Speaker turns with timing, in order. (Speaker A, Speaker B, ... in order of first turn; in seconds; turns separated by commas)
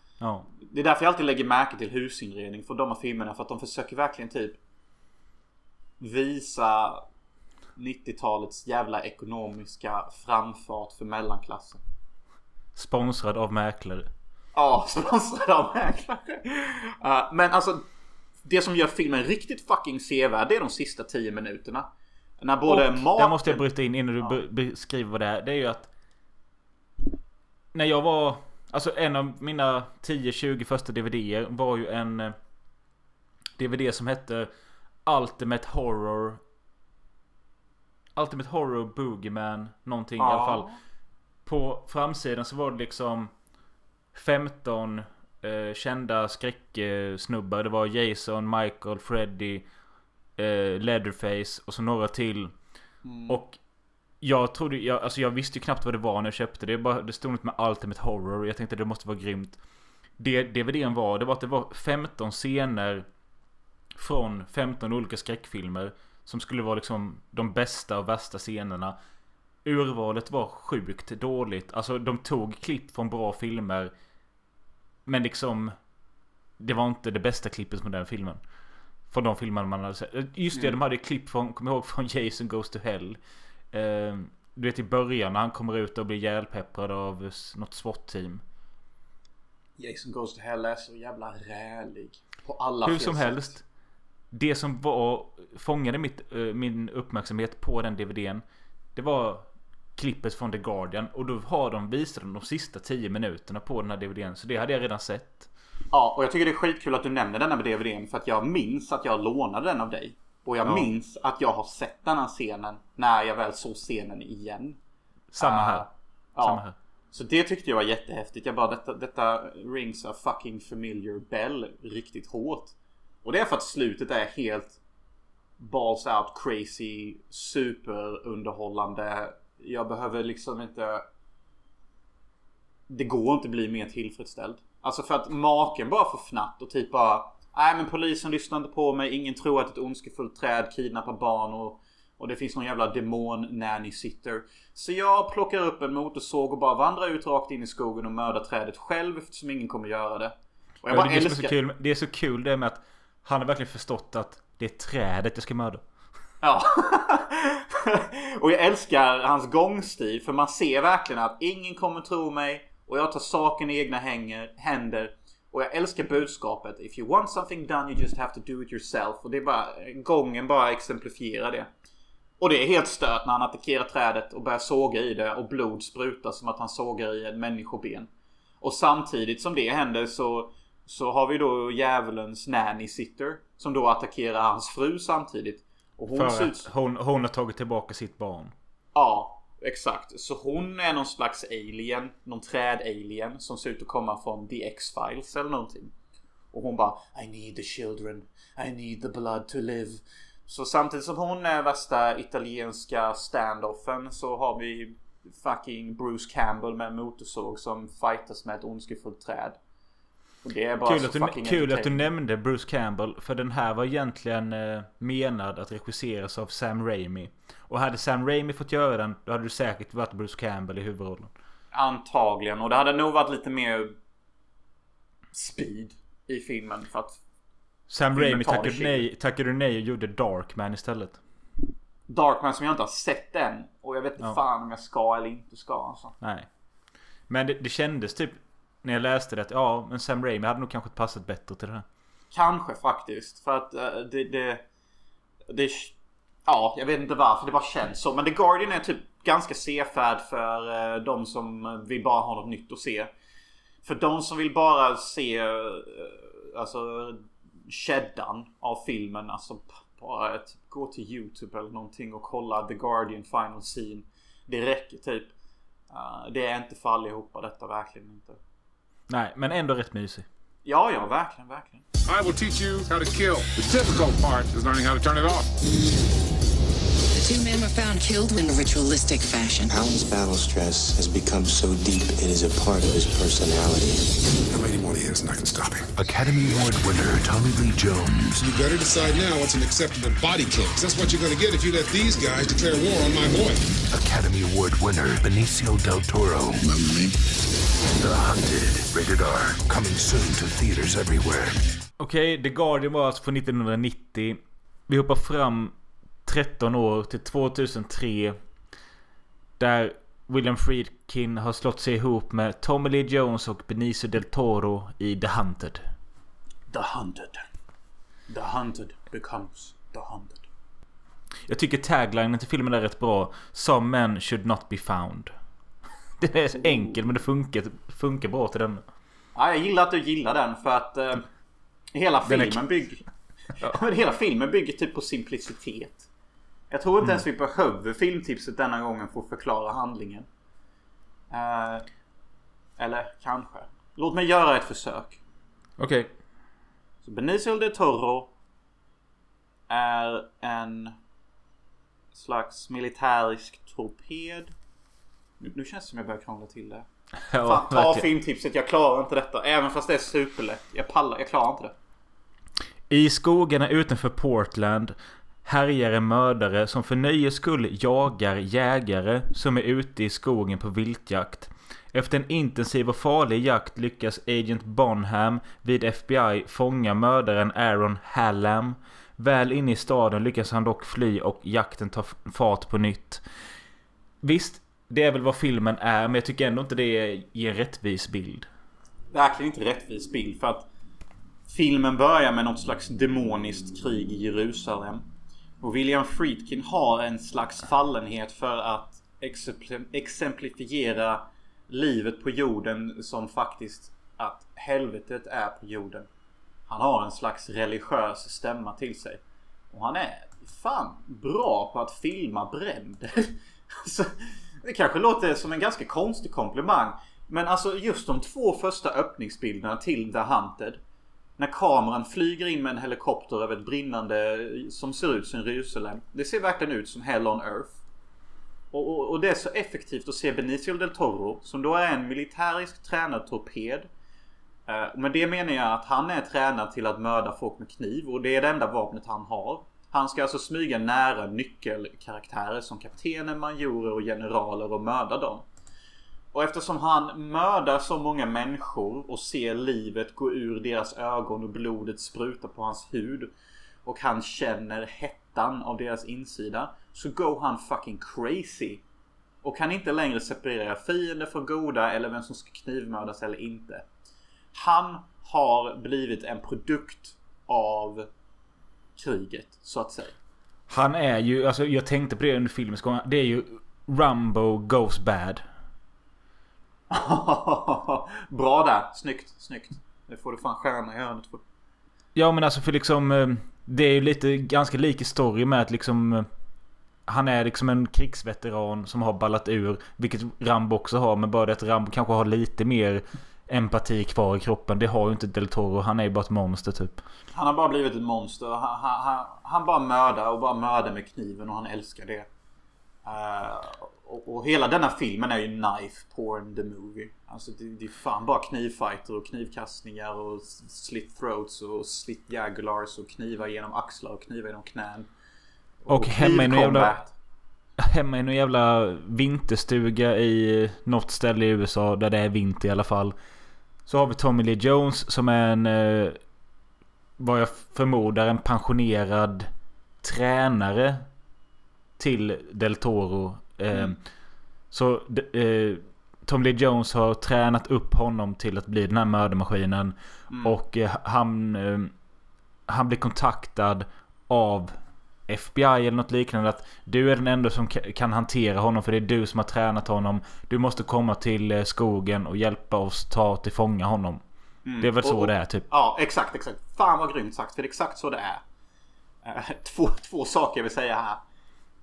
Speaker A: 0.2-0.5, Speaker B: 0.6-4.6, Speaker B: 6.0-7.0, Speaker B: 7.8-11.8, Speaker A: 12.7-14.1, Speaker B: 14.6-17.8, Speaker B: 18.4-23.6, Speaker A: 22.7-25.9, Speaker A: 27.7-32.4, Speaker A: 33.6-34.5, Speaker A: 35.0-36.4, Speaker A: 38.1-40.7, Speaker B: 40.2-40.8, Speaker A: 41.5-43.3, Speaker A: 44.1-49.6, Speaker A: 50.4-52.5, Speaker B: 53.0-53.4, Speaker A: 53.3-53.6, Speaker A: 54.2-59.6, Speaker A: 60.2-63.1, Speaker A: 64.0-69.0, Speaker A: 69.6-73.9, Speaker A: 75.0-75.8, Speaker A: 76.6-78.4, Speaker A: 79.1-83.2, Speaker A: 83.7-88.4, Speaker B: 89.8-93.5, Speaker A: 92.8-93.6, Speaker A: 94.3-98.4, Speaker A: 99.0-105.5, Speaker B: 105.9-114.8, Speaker A: 110.6-110.9, Speaker A: 115.3-115.9, Speaker B: 115.4-116.6, Speaker A: 116.4-116.8, Speaker B: 117.1-124.8, Speaker B: 125.6-131.1, Speaker B: 132.9-151.6, Speaker A: 150.9-155.8, Speaker B: 156.4-171.7, Speaker B: 172.4-178.1, Speaker B: 178.6-186.7, Speaker A: 186.1-188.5, Speaker B: 188.9-195.9, Speaker B: 196.5-209.6, Speaker B: 210.4-212.1, Speaker A: 210.8-221.3, Speaker B: 221.7-223.9, Speaker B: 225.3-227.2, Speaker A: 227.9-231.2, Speaker B: 228.1-229.1, Speaker B: 232.1-236.2, Speaker A: 236.2-236.5, Speaker A: 237.3-241.8, Speaker B: 242.3-244.6, Speaker B: 245.5-245.9, Speaker B: 246.4-253.1, Speaker B: 253.8-265.3, Speaker B: 265.9-268.4, Speaker A: 269.1-270.3, Speaker B: 270.6-271.8, Speaker C: 272.1-275.4, Speaker D: 277.1-279.6, Speaker E: 279.6-284.0, Speaker C: 284.5-285.9, Speaker F: 285.9-288.5, Speaker C: 288.4-293.7, Speaker F: 293.9-297.1, Speaker F: 297.9-301.6, Speaker A: 302.0-308.4, Speaker A: 309.6-315.9, Speaker B: 316.7-317.4, Speaker B: 318.3-320.4, Speaker A: 321.5-325.3, Speaker A: 326.2-328.8, Speaker B: 326.6-326.9, Speaker B: 329.3-331.3, Speaker B: 331.9-333.1, Speaker A: 332.3-332.6, Speaker B: 333.6-336.1, Speaker B: 336.7-340.3, Speaker B: 341.3-341.9, Speaker B: 342.8-345.2, Speaker A: 345.8-346.1, Speaker B: 347.0-348.3, Speaker B: 349.7-350.9, Speaker B: 352.1-354.5, Speaker B: 355.4-356.9, Speaker A: 357.3-358.1, Speaker B: 357.4-361.7, Speaker A: 362.9-383.2, Speaker A: 384.2-388.5, Speaker B: 389.1-390.7, Speaker B: 391.5-395.1, Speaker B: 395.6-406.1, Speaker B: 406.7-420.8, Speaker B: 421.4-427.8, Speaker B: 428.7-433.9, Speaker B: 434.7-445.4, Speaker B: 446.3-453.3, Speaker B: 453.8-458.8, Speaker B: 459.4-463.8, Speaker B: 464.5-468.1, Speaker B: 469.0-470.1, Speaker A: 470.7-475.4, Speaker B: 476.9-481.4, Speaker A: 482.1-486.3, Speaker A: 487.1-497.0, Speaker B: 497.3-502.3, Speaker B: 503.1-515.1, Speaker B: 515.8-517.1, Speaker A: 515.9-517.0, Speaker A: 517.8-523.1, Speaker A: 523.9-526.2, Speaker A: 527.2-529.5, Speaker A: 530.0-531.0, Speaker A: 532.0-534.0, Speaker A: 534.7-541.9, Speaker B: 540.3-540.6, Speaker A: 542.7-544.8, Speaker A: 545.3-554.2, Speaker B: 554.6-558.4, Speaker A: 554.8-555.6, Speaker B: 559.2-561.2